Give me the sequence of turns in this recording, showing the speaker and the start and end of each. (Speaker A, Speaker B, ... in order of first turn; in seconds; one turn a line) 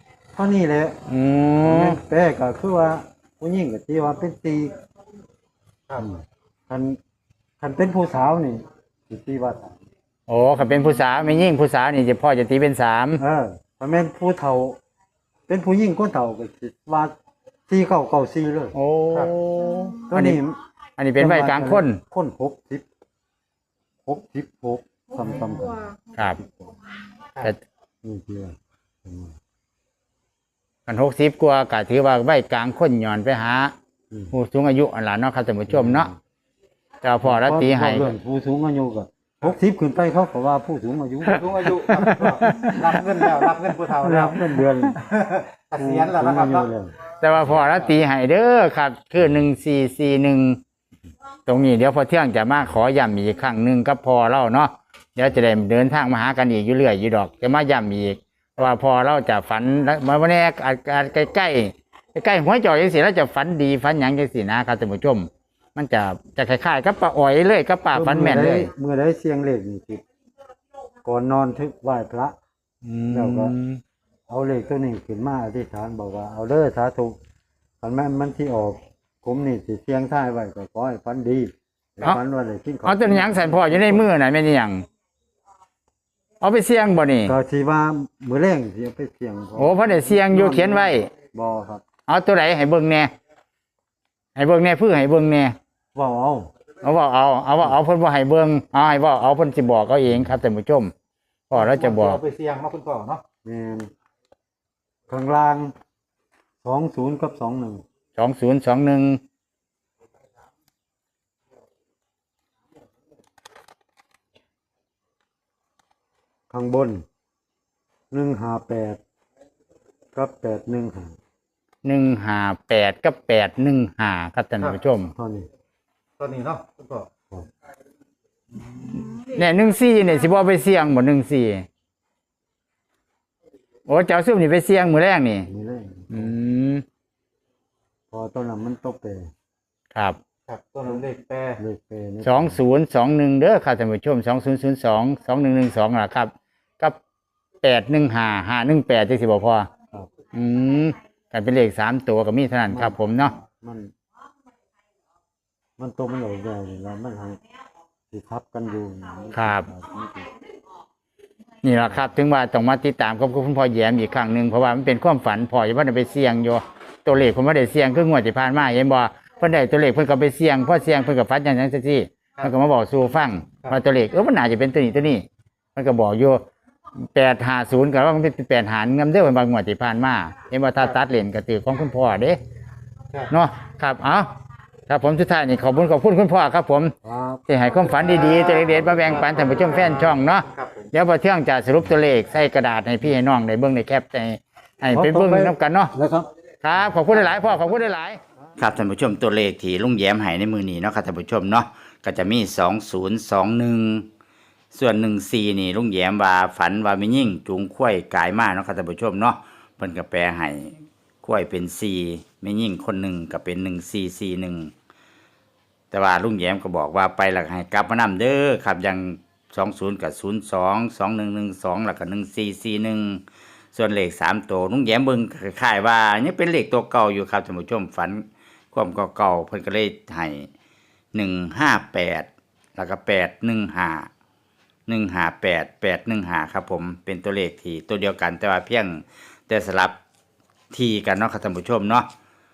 Speaker A: 0.3-1.0
Speaker B: 1.1-2.0
Speaker A: 1.6-4.8
Speaker A: 6.0-7.0
Speaker A: 7.6-9.8
Speaker B: 10.3-13.2
Speaker A: 13.2-14.8
Speaker A: 15.5-17.1
Speaker A: 17.7-18.8
Speaker B: 18.8-20.4
Speaker A: 20.1-20.6
Speaker B: 21.0-22.0
Speaker A: 21.2-22.9
Speaker A: 24.1-26.7
Speaker A: 28.0-29.4
Speaker B: 30.9-33.7
Speaker B: 34.3-36.1
Speaker A: 35.7-36.2
Speaker B: 37.0-38.1
Speaker A: 37.2-42.5
Speaker C: 41.3-46.7
Speaker B: 41.9-43.0
Speaker A: 44.0-45.0
Speaker A: 45.8-46.9
Speaker B: 47.2-50.6
Speaker B: 51.5-68.7
Speaker A: 67.9-70.0
Speaker A: 71.0-72.4
Speaker B: 72.8-73.8
Speaker A: 73.1-73.5
Speaker A: 74.3-77.2
Speaker A: 77.8-84.1
Speaker B: 82.8-84.8
Speaker B: 86.4-87.3
Speaker A: 87.2-91.8
Speaker B: 89.6-91.1
Speaker B: 92.1-93.1
Speaker B: 94.4-95.5
Speaker A: 95.9-96.5
Speaker B: 96.8-100.9
Speaker B: 101.5-102.2
Speaker C: 101.5-103.2
Speaker A: 103.4-103.9
Speaker A: 105.1-105.7
Speaker A: 106.6-107.8
Speaker B: 108.2-109.2
Speaker A: 116.5-117.0
Speaker A: 118.1-119.0
Speaker A: 120.1-121.2
Speaker B: 121.8-125.1
Speaker A: 125.1-125.5
Speaker C: 126.2-127.1
Speaker B: 128.8-131.7
Speaker B: 133.9-135.5
Speaker A: 135.5-136.4
Speaker B: 136.1-136.8
Speaker A: 138.1-139.3
Speaker C: 140.5-141.6
Speaker A: 141.6-142.6
Speaker B: 142.2-147.0
Speaker B: 147.6-149.7
Speaker B: 150.3-153.3
Speaker A: 152.7-153.9
Speaker A: 155.8-157.4
Speaker A: 158.1-160.3
Speaker B: 159.3-159.7
Speaker B: 161.6-175.2
Speaker B: 175.8-176.4
Speaker B: 177.0-182.4
Speaker B: 183.3-184.3
Speaker B: 184.9-186.9
Speaker A: 187.0-187.4
Speaker B: 187.5-195.9
Speaker C: 187.9-190.9
Speaker A: 194.9-196.3
Speaker B: 196.6-204.1
Speaker B: 204.7-214.7
Speaker B: 215.9-223.2
Speaker B: 223.7-230.5
Speaker B: 231.1-234.1
Speaker B: 234.9-240.0
Speaker B: 240.7-242.1